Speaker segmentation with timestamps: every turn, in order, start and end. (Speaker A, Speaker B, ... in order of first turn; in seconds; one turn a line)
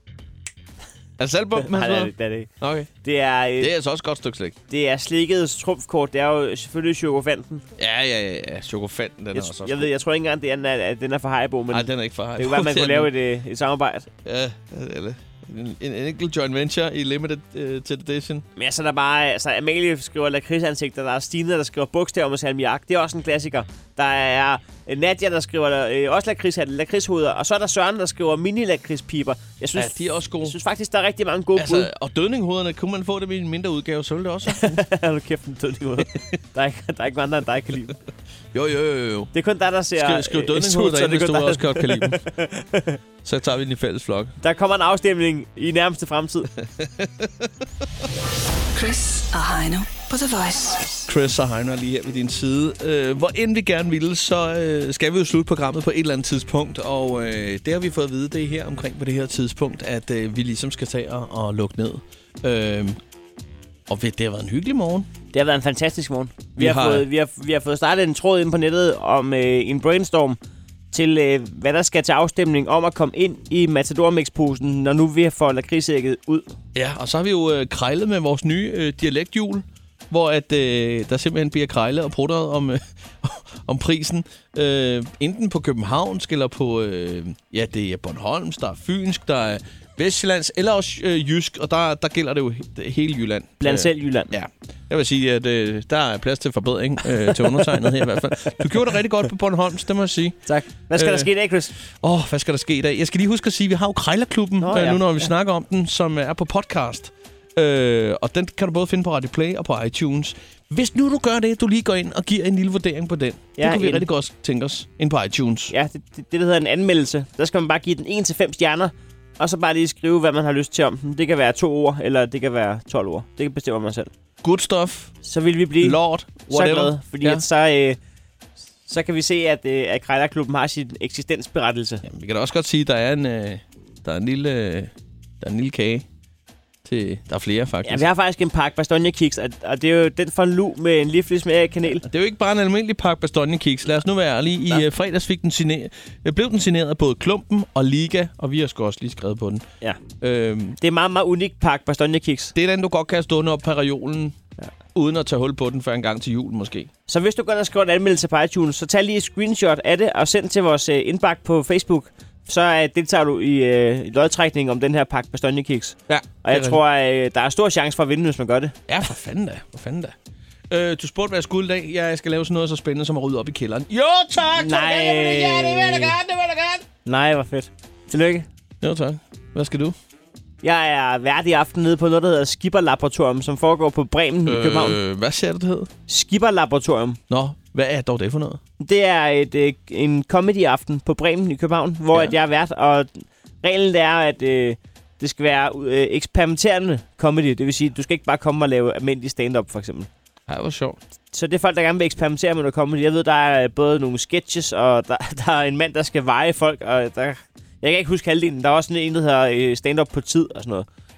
Speaker A: 1.2-2.9
Speaker B: 1.6-2.5
Speaker B: 3.0-3.7
Speaker A: 3.6-4.6
Speaker B: 4.7-7.7
Speaker A: 7.8-9.9
Speaker B: 9.3-14.1
Speaker A: 11.7-13.1
Speaker A: 14.2-18.4
Speaker B: 18.6-31.9
Speaker A: 29.8-30.6
Speaker A: 31.6-34.8
Speaker B: 34.5-38.0
Speaker A: 38.5-39.3
Speaker B: 39.3-43.0
Speaker A: 40.0-42.2
Speaker A: 43.2-44.4
Speaker B: 44.4-46.5
Speaker A: 46.6-47.5
Speaker C: 48.8-50.9
Speaker A: 51.1-63.0
Speaker A: 63.9-65.1
Speaker B: 65.3-70.4
Speaker A: 66.6-67.1
Speaker B: 70.9-76.5
Speaker A: 76.8-115.7
Speaker B: 93.6-94.3
Speaker B: 100.5-101.8
Speaker B: 104.6-105.3
Speaker B: 113.6-114.1
Speaker B: 115.7-124.1
Speaker A: 124.4-125.2
Speaker B: 125.2-128.0
Speaker A: 125.8-127.4
Speaker B: 128.9-132.0
Speaker A: 132.0-136.1
Speaker A: 136.8-138.1
Speaker B: 137.8-142.1
Speaker A: 141.9-149.7
Speaker A: 150.2-150.8
Speaker B: 150.8-152.5
Speaker A: 152.6-154.4
Speaker A: 154.9-156.9
Speaker B: 157.1-168.8
Speaker A: 166.1-166.8
Speaker A: 168.9-170.2
Speaker A: 170.7-176.9
Speaker B: 174.6-176.2
Speaker B: 177.1-178.5
Speaker A: 178.8-179.9
Speaker B: 180.6-185.0
Speaker A: 184.5-185.9
Speaker B: 186.1-187.2
Speaker A: 187.3-188.6
Speaker B: 188.8-200.1
Speaker A: 200.5-201.0
Speaker B: 201.3-210.9